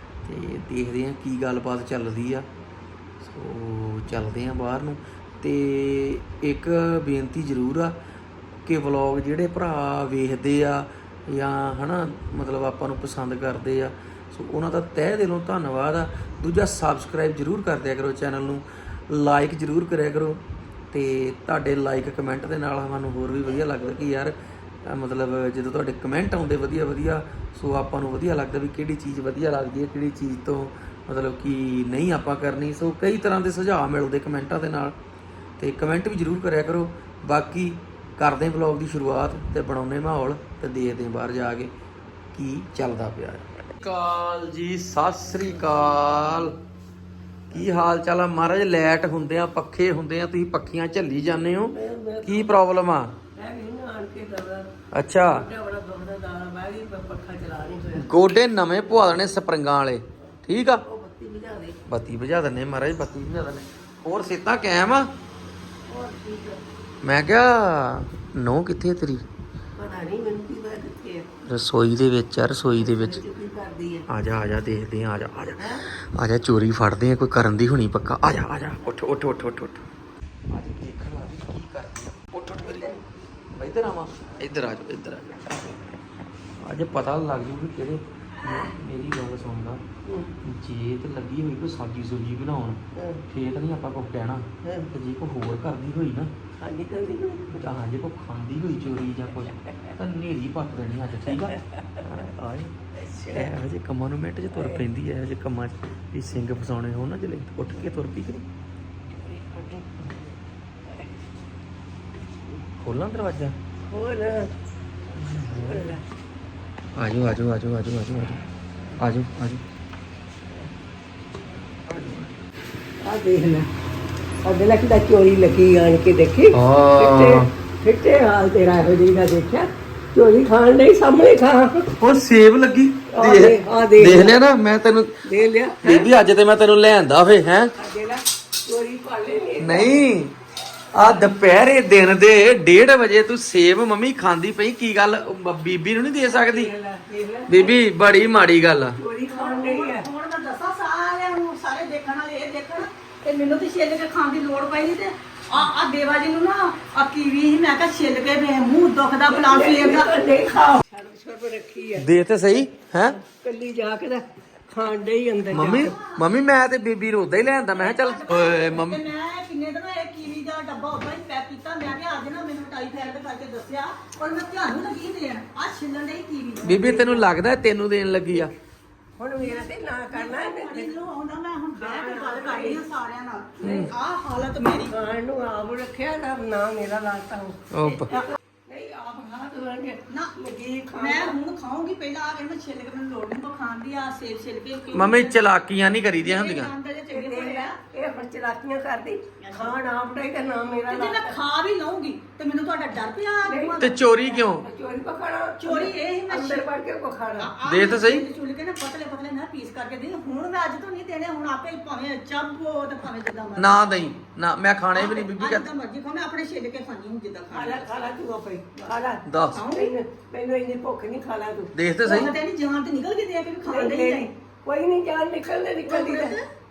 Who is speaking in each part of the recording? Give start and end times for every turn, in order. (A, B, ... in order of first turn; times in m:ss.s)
0:00.2-0:02.5 A
0:03.2-0:08.0 A
0:08.6-0:20.4 A
0:20.9-0:35.0 A
0:35.6-0:41.7 A
0:42.3-0:46.6 A
0:45.7-0:46.1 B
0:47.5-0:53.2 A
0:51.7-0:52.5 B
0:53.4-0:58.1 B
0:54.9-0:55.5 A
0:58.0-1:00.8 A
1:00.8-1:01.8 B
1:01.9-1:05.1 A
1:05.9-1:06.6 B
1:07.0-1:09.2 A
1:09.8-1:11.3 B
1:11.5-1:13.2 A
1:12.8-1:14.1 B
1:14.1-1:19.8 A
1:15.6-1:15.9 B
1:20.5-1:23.0 A
1:22.7-1:23.0 B
1:23.5-1:25.6 A
1:26.6-1:29.8 A
1:30.0-1:30.4 B
1:30.4-1:36.3 A
1:33.0-1:33.2 B
1:34.6-1:34.9 B
1:36.6-1:37.6 B
1:37.5-1:42.8 A
1:39.6-1:39.9 B
1:41.3-1:42.1 B
1:43.0-1:43.5 B
1:43.3-1:48.5 A
1:44.5-1:44.8 B
1:49.2-1:50.4 B
1:50.9-1:51.1 B
1:52.8-1:53.6 A
1:53.9-1:54.5 B
1:55.2-1:56.0 A
1:55.4-1:56.0 B
1:57.0-1:58.4 A
1:59.0-1:59.6 A
2:01.9-2:02.3 A
2:03.0-2:03.7 B
2:04.4-2:11.9 B
2:06.5-2:07.5 A
2:12.0-2:15.2 A
2:13.1-2:14.4 B
2:15.2-2:16.1 B
2:15.8-2:17.7 A
2:17.8-2:20.1 B
2:19.6-2:20.3 A
2:20.9-2:26.7 A
2:26.2-2:27.8 B
2:27.5-2:29.0 A
2:29.0-2:30.1 B
2:29.3-2:40.8 C
2:39.3-2:42.1 B
2:42.0-2:43.2 A
2:43.2-2:46.0 B
2:45.5-2:49.0 A
2:45.5-2:46.3 C
2:47.7-2:56.8 C
2:56.6-2:58.5 A
2:56.6-2:57.3 B
2:59.2-3:01.0 B
2:59.4-3:05.0 C
3:01.8-3:02.8 B
3:03.6-3:03.9 A
3:03.6-3:03.9 B
3:04.9-3:11.4 B
3:07.7-3:08.2 A
3:10.1-3:10.3 C
3:11.0-3:15.4 C
3:14.9-3:16.7 A
3:16.2-3:17.8 C
3:17.1-3:21.4 B
3:19.4-3:19.8 C
3:20.9-3:24.0 C
3:23.4-3:27.5 B
3:23.8-3:24.7 A
3:25.6-3:26.7 C
3:27.4-3:34.2 C
3:27.6-3:28.3 A
3:33.6-3:35.7 A
3:34.9-3:37.9 C
3:37.5-3:41.7 B
3:39.3-3:39.7 A
3:39.5-3:39.9 C
3:41.8-3:42.3 A
3:42.0-3:44.3 C
3:43.6-3:46.4 B
3:45.9-3:46.4 C